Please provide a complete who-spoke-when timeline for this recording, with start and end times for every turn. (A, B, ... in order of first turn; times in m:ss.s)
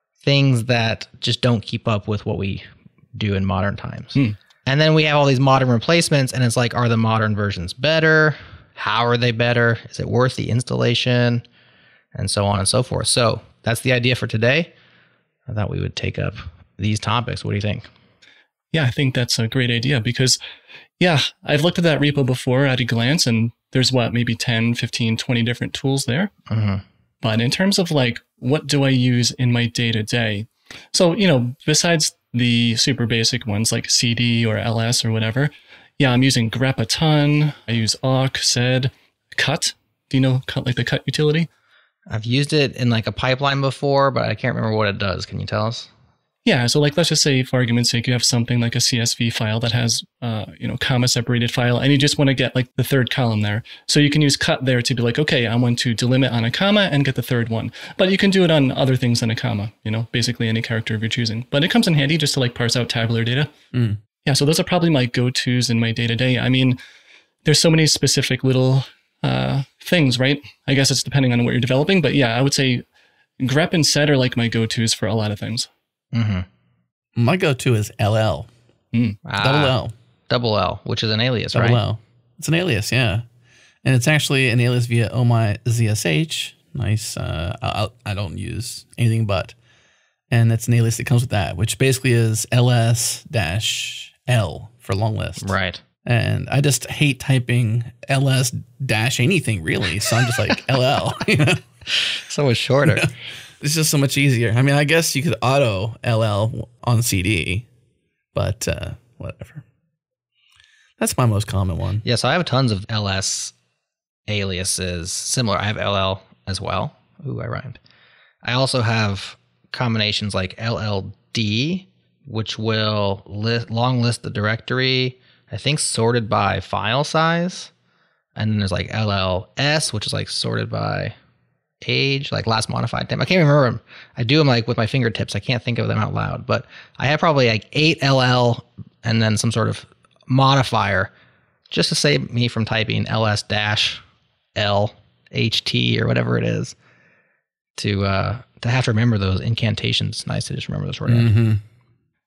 0:00.2-0:11.4 A
0:12.2-0:14.7 A
0:15.5-0:17.9 A
0:18.7-0:20.4 B
0:21.0-0:26.3 B
0:26.5-0:26.8 A
0:27.2-0:41.5 B
0:42.1-0:45.9 A
0:46.4-1:03.5 B
1:03.7-1:04.0 C
1:04.3-1:06.8 B
1:07.4-1:12.8 B
1:13.4-1:15.7 B
1:16.1-1:16.5 A
1:17.2-1:18.5 C
1:19.2-1:19.8 A
1:19.4-1:19.9 C
1:20.3-1:21.8 A
1:21.5-1:23.2 C
1:23.8-1:29.6 C
1:30.3-1:41.6 C
1:35.4-1:35.8 A
1:42.1-1:43.1 A
1:42.9-1:47.7 C
1:48.3-1:49.6 C
1:51.0-1:52.0 C
1:52.0-1:53.5 A
1:54.3-1:57.8 A
1:58.4-2:07.7 A
2:08.4-2:11.2 A
2:11.8-2:21.1 A
2:21.7-2:24.0 A
2:24.6-2:26.8 A
2:27.8-2:31.3 A
2:31.1-2:31.6 C